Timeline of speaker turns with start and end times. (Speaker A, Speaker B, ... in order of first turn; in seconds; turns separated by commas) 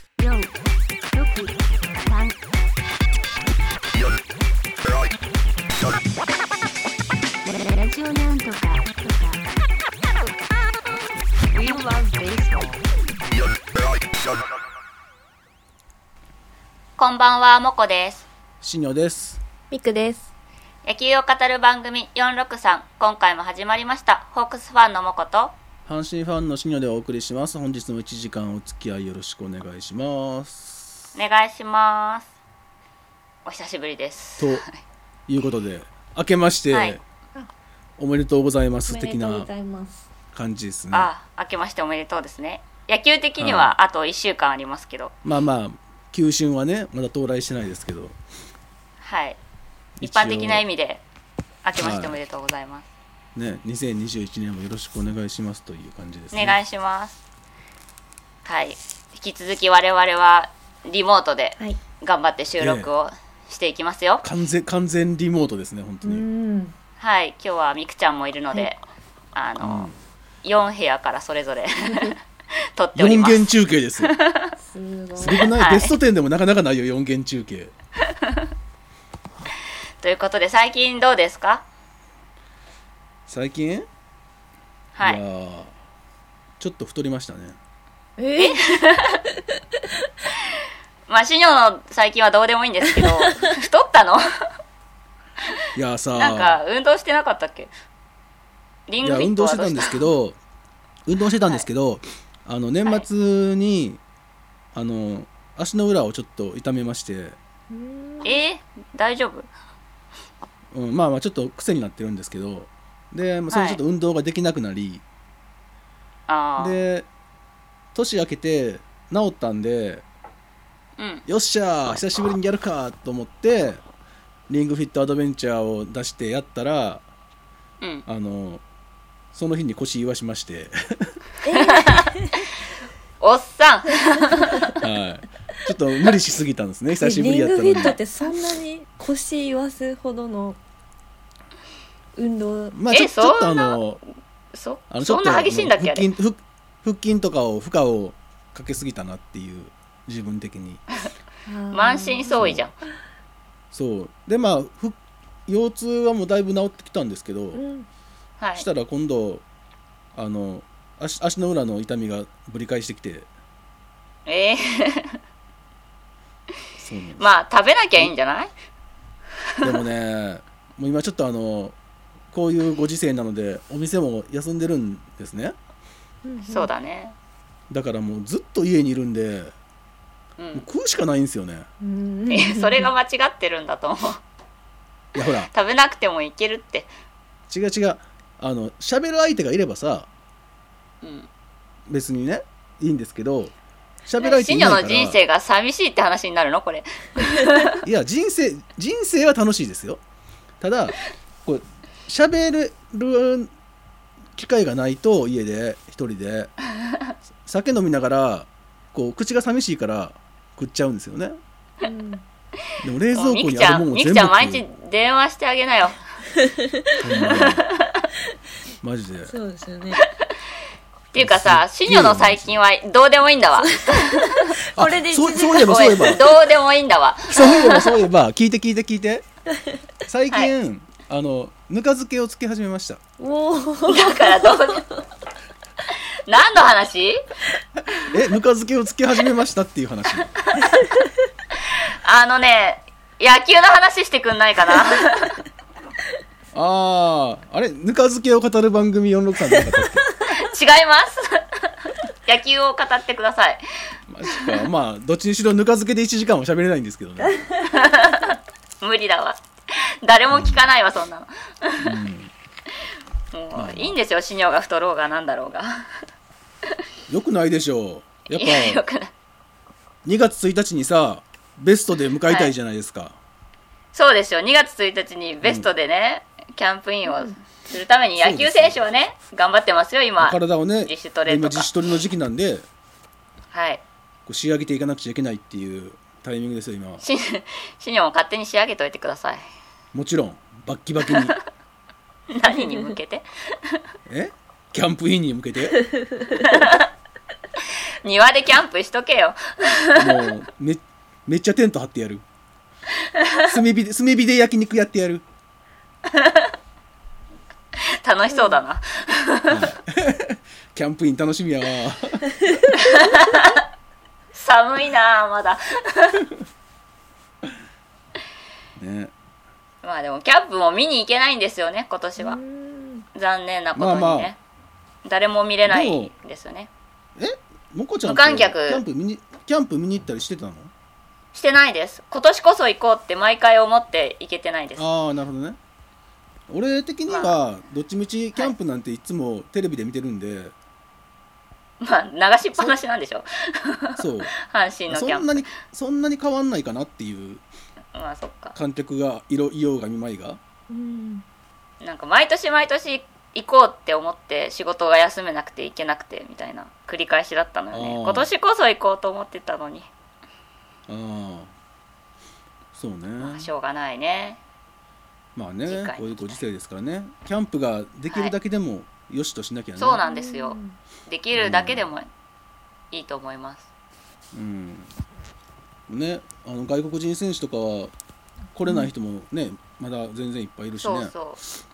Speaker A: 0.2-0.5, Speaker A: 1.1-2.4, Speaker A: 7.4-9.4, Speaker A: 11.5-12.8, Speaker B: 17.0-18.3, Speaker C: 18.6-19.4, Speaker D: 19.7-20.3, Speaker B: 20.8-25.5, Speaker C: 25.9-31.0, Speaker B: 31.1-32.3, Speaker B: 33.4-34.8, Speaker C: 34.4-34.6, Speaker C: 35.3-37.0, Speaker B: 36.7-37.0, Speaker C: 38.0-39.5, Speaker D: 38.9-40.1, Speaker C: 40.3-41.1, Speaker B: 40.9-45.1, Speaker C: 43.4-43.7, Speaker C: 45.2-48.1, Speaker B: 49.0-49.4, Speaker C: 50.0-50.6, Speaker B: 50.0-51.0, Speaker B: 51.6-52.9, Speaker C: 51.8-52.2, Speaker C: 53.3-56.6, Speaker B: 56.3-57.2, Speaker B: 58.4-64.2, Speaker C: 62.6-62.9, Speaker C: 64.2-66.3, Speaker D: 66.0-66.7, Speaker B: 67.0-68.8, Speaker B: 69.3-69.9, Speaker C: 69.6-69.9, Speaker B: 70.4-74.5, Speaker C: 72.9-74.1, Speaker D: 74.6-75.5, Speaker C: 75.1-77.7, Speaker B: 75.4-75.9, Speaker B: 78.1-78.4, Speaker B: 80.0-81.6, Speaker C: 83.3-83.9, Speaker B: 84.9-85.2, Speaker C: 85.0-85.7, Speaker C: 86.6-87.6, Speaker D: 88.2-88.8, Speaker B: 88.3-89.2, Speaker B: 91.1-94.2, Speaker C: 95.7-96.6, Speaker B: 96.1-97.7, Speaker B: 98.9-100.0, Speaker C: 99.0-100.4, Speaker C: 101.0-104.0, Speaker C: 104.7-107.4, Speaker D: 107.7-108.3, Speaker B: 108.2-109.5, Speaker C: 110.7-115.0, Speaker B: 113.5-113.8, Speaker B: 116.3-116.8, Speaker C: 116.6-117.1, Speaker C: 117.9-120.0, Speaker B: 121.0-121.2, Speaker C: 121.3-123.8, Speaker C: 124.5-127.0, Speaker C: 128.1-128.6, Speaker C: 129.3-131.2, Speaker D: 131.4-132.3, Speaker B: 131.5-132.1, Speaker B: 133.2-134.7, Speaker C: 134.8-138.0, Speaker D: 137.0-140.6, Speaker D: 142.2-142.7, Speaker C: 142.7-144.0, Speaker B: 142.9-143.8, Speaker B: 144.5-146.1, Speaker C: 144.9-150.8, Speaker D: 151.5-152.5, Speaker B: 151.7-152.7, Speaker C: 152.3-152.7, Speaker C: 153.7-157.6, Speaker D: 157.5-157.9, Speaker B: 158.4-158.7, Speaker C: 158.6-159.4, Speaker C: 160.1-163.3, Speaker B: 164.2-165.2, Speaker C: 166.8-167.3, Speaker B: 167.2-168.5, Speaker C: 169.6-171.7, Speaker C: 172.3-175.6, Speaker D: 176.2-176.7, Speaker B: 176.4-177.2, Speaker C: 177.7-179.5, Speaker B: 180.4-180.7, Speaker C: 180.5-181.7, Speaker D: 181.8-182.9, Speaker B: 182.3-184.2, Speaker C: 185.1-185.5, Speaker B: 185.5-186.9, Speaker C: 187.5-190.1, Speaker B: 191.0-191.3, Speaker C: 191.9-193.5, Speaker C: 194.1-195.2, Speaker B: 194.2-197.8, Speaker C: 197.8-200.0, Speaker C: 200.6-203.5, Speaker C: 204.3-206.5, Speaker C: 207.4-211.4, Speaker D: 211.8-212.2, Speaker C: 212.8-214.6, Speaker B: 213.1-216.0, Speaker C: 217.0-217.6, Speaker B: 217.1-218.0, Speaker C: 218.8-219.3, Speaker D: 219.2-220.0, Speaker B: 221.1-224.5, Speaker C: 221.2-222.6, Speaker D: 223.7-226.2, Speaker C: 224.7-226.3, Speaker B: 225.6-227.9, Speaker C: 227.3-229.2, Speaker C: 230.1-233.0, Speaker D: 233.2-234.8, Speaker B: 233.8-234.8, Speaker B: 235.9-237.2, Speaker C: 238.1-240.3, Speaker B: 240.4-240.8, Speaker B: 241.6-245.4, Speaker C: 246.5-250.1, Speaker B: 250.2-253.6, Speaker C: 254.1-257.4, Speaker B: 257.6-259.4, Speaker B: 260.0-262.0, Speaker C: 260.3-260.6, Speaker C: 261.8-262.3, Speaker B: 263.3-265.9, Speaker C: 263.5-264.0, Speaker C: 267.1-268.8, Speaker B: 268.3-269.1, Speaker C: 270.0-273.2, Speaker B: 272.2-272.5, Speaker B: 273.9-281.7, Speaker C: 275.4-275.7, Speaker D: 277.1-277.3, Speaker C: 278.2-278.8, Speaker C: 280.2-282.6, Speaker B: 283.5-283.8, Speaker C: 284.2-287.0, Speaker B: 287.0-289.4, Speaker C: 289.9-291.3, Speaker B: 291.1-291.4, Speaker B: 292.3-293.8, Speaker C: 294.1-295.8, Speaker B: 296.3-296.9, Speaker B: 298.0-300.2, Speaker C: 299.9-302.2, Speaker B: 303.1-303.4, Speaker C: 303.4-305.2, Speaker B: 306.1-306.5, Speaker B: 308.0-309.7, Speaker D: 308.3-308.6, Speaker C: 309.5-312.3, Speaker B: 312.7-313.6, Speaker B: 314.3-316.2, Speaker C: 318.8-319.1, Speaker B: 319.8-322.4, Speaker D: 322.2-323.0, Speaker B: 323.1-324.4, Speaker C: 323.7-324.3, Speaker B: 325.0-326.7, Speaker C: 325.6-326.1, Speaker C: 327.2-330.7, Speaker B: 328.0-328.8, Speaker B: 331.3-334.9, Speaker C: 334.8-335.6, Speaker C: 336.5-340.5, Speaker B: 337.1-337.4, Speaker B: 341.8-345.5, Speaker C: 344.0-344.3, Speaker C: 344.9-347.4, Speaker B: 347.9-348.6, Speaker C: 348.5-350.4, Speaker D: 350.7-351.2, Speaker B: 351.8-359.9, Speaker C: 357.7-358.3, Speaker C: 360.9-361.5, Speaker C: 362.7-363.5, Speaker B: 363.2-364.4, Speaker C: 365.3-370.0, Speaker B: 365.6-366.4, Speaker B: 368.1-368.3, Speaker B: 369.8-372.1, Speaker D: 370.1-370.8, Speaker C: 371.4-371.9, Speaker B: 372.9-373.7, Speaker C: 374.3-374.9, Speaker C: 375.9-377.9, Speaker C: 378.5-381.1, Speaker B: 380.8-381.4